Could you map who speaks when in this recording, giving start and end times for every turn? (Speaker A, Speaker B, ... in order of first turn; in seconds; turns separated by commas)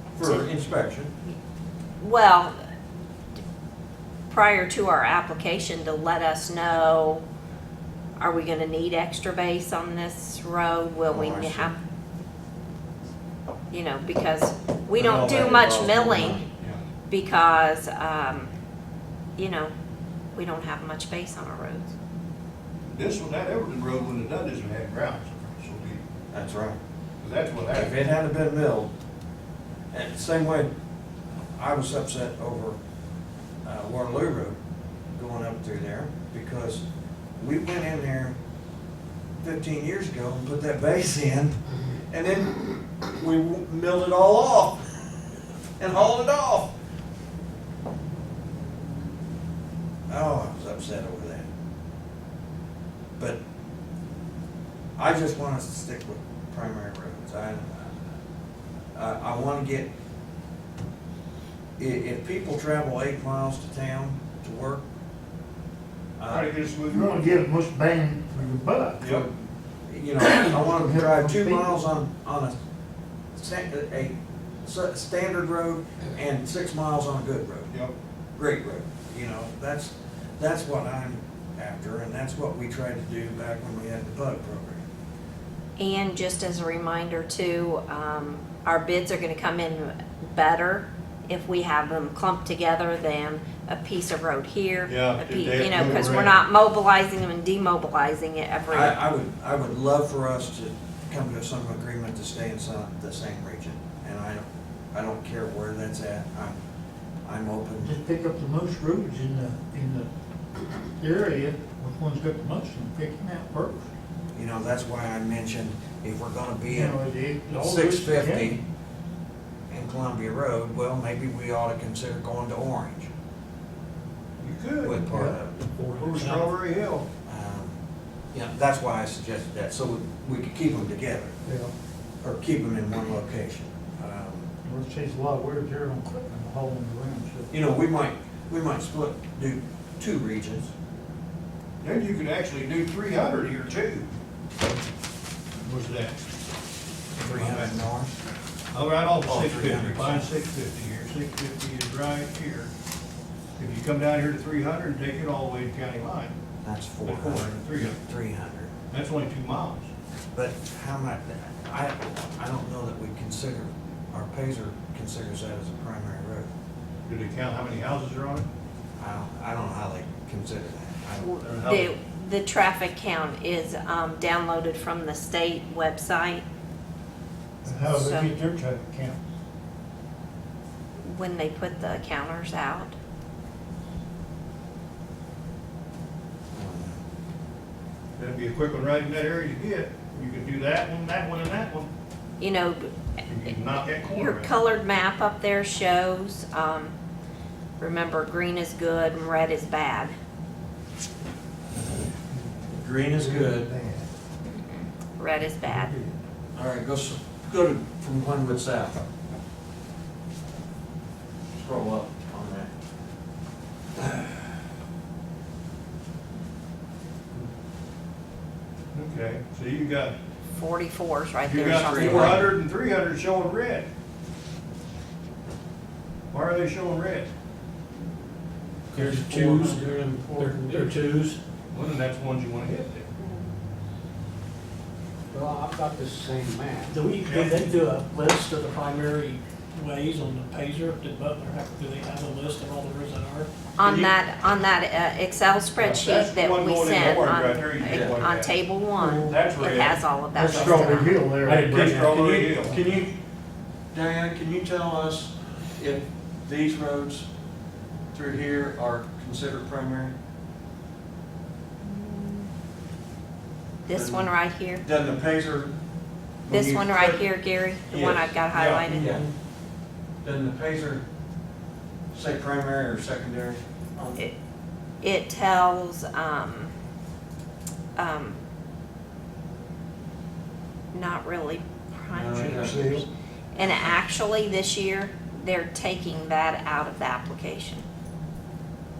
Speaker A: 0.1-1.1, Speaker B: 0.2-0.5, Speaker B: 2.0-2.6, Speaker B: 4.3-7.2, Speaker B: 8.2-11.8, Speaker A: 11.1-11.7, Speaker B: 13.7-16.4, Speaker A: 14.9-16.5, Speaker B: 17.1-18.5, Speaker B: 19.4-19.7, Speaker B: 20.3-21.9, Speaker C: 22.9-26.0, Speaker A: 26.3-26.8, Speaker C: 27.2-27.9, Speaker A: 27.7-28.9, Speaker A: 29.9-30.7, Speaker A: 31.6-32.8, Speaker A: 33.6-34.6, Speaker A: 35.1-36.8, Speaker A: 37.4-38.4, Speaker A: 39.4-44.8, Speaker A: 45.8-46.7, Speaker A: 50.1-51.5, Speaker A: 55.0-58.0, Speaker A: 59.0-59.9, Speaker A: 61.8-64.8, Speaker A: 66.2-66.5, Speaker C: 66.3-67.5, Speaker D: 66.9-69.1, Speaker C: 69.0-69.3, Speaker A: 69.0-72.5, Speaker D: 70.2-71.8, Speaker A: 73.3-77.7, Speaker C: 77.7-77.9, Speaker A: 78.4-84.8, Speaker B: 85.8-99.0, Speaker C: 94.9-96.4, Speaker A: 98.7-106.6, Speaker A: 107.2-108.0, Speaker D: 107.8-110.1, Speaker D: 111.0-113.9, Speaker A: 114.3-118.6, Speaker D: 116.7-118.6, Speaker A: 119.7-123.1, Speaker C: 124.4-125.1, Speaker A: 124.8-125.7, Speaker D: 125.1-126.5, Speaker C: 125.9-127.1, Speaker A: 127.3-127.8, Speaker A: 128.3-131.4, Speaker D: 131.5-131.7, Speaker A: 132.2-134.5, Speaker D: 134.7-137.6, Speaker A: 137.5-140.7, Speaker C: 141.8-144.1, Speaker C: 145.6-146.2, Speaker C: 147.2-147.8, Speaker A: 147.2-148.1, Speaker C: 148.7-152.7, Speaker A: 149.2-150.3, Speaker C: 153.6-156.4, Speaker A: 156.6-158.7, Speaker C: 157.1-158.0, Speaker C: 158.9-159.9, Speaker A: 160.3-166.5, Speaker C: 167.1-168.5, Speaker A: 169.0-171.4, Speaker B: 171.2-176.4, Speaker C: 171.4-171.9, Speaker D: 177.6-179.2, Speaker B: 177.7-178.3, Speaker B: 181.0-182.9, Speaker A: 186.5-187.0, Speaker C: 188.2-191.9, Speaker B: 192.4-192.9, Speaker C: 193.3-194.6, Speaker B: 194.0-196.9, Speaker B: 197.8-200.1, Speaker A: 202.7-203.7, Speaker D: 203.1-204.1, Speaker B: 204.5-205.9, Speaker D: 205.7-206.1, Speaker A: 206.6-209.0, Speaker A: 211.6-212.7, Speaker A: 214.0-214.4, Speaker C: 218.9-220.2, Speaker B: 220.5-222.5, Speaker C: 221.4-223.9, Speaker A: 221.8-222.5, Speaker C: 226.3-227.3, Speaker C: 228.9-229.2, Speaker E: 228.9-231.4, Speaker F: 229.3-230.9, Speaker C: 231.7-233.1, Speaker F: 235.3-236.9, Speaker E: 236.9-243.5, Speaker C: 237.2-237.8, Speaker B: 243.8-251.2, Speaker A: 243.8-244.1, Speaker C: 245.8-250.8, Speaker A: 247.8-248.2, Speaker E: 250.4-252.5, Speaker D: 250.4-252.0, Speaker C: 251.5-252.8, Speaker A: 252.0-253.1, Speaker A: 253.9-257.3, Speaker A: 258.1-260.1, Speaker B: 261.8-262.5, Speaker B: 263.9-264.8, Speaker A: 263.9-265.8, Speaker A: 266.5-267.2, Speaker B: 266.5-269.2, Speaker A: 267.9-269.3, Speaker A: 270.2-271.0, Speaker A: 272.1-274.2, Speaker B: 275.0-276.7, Speaker B: 278.0-278.4, Speaker B: 280.9-287.9, Speaker A: 282.1-282.8, Speaker D: 282.6-283.0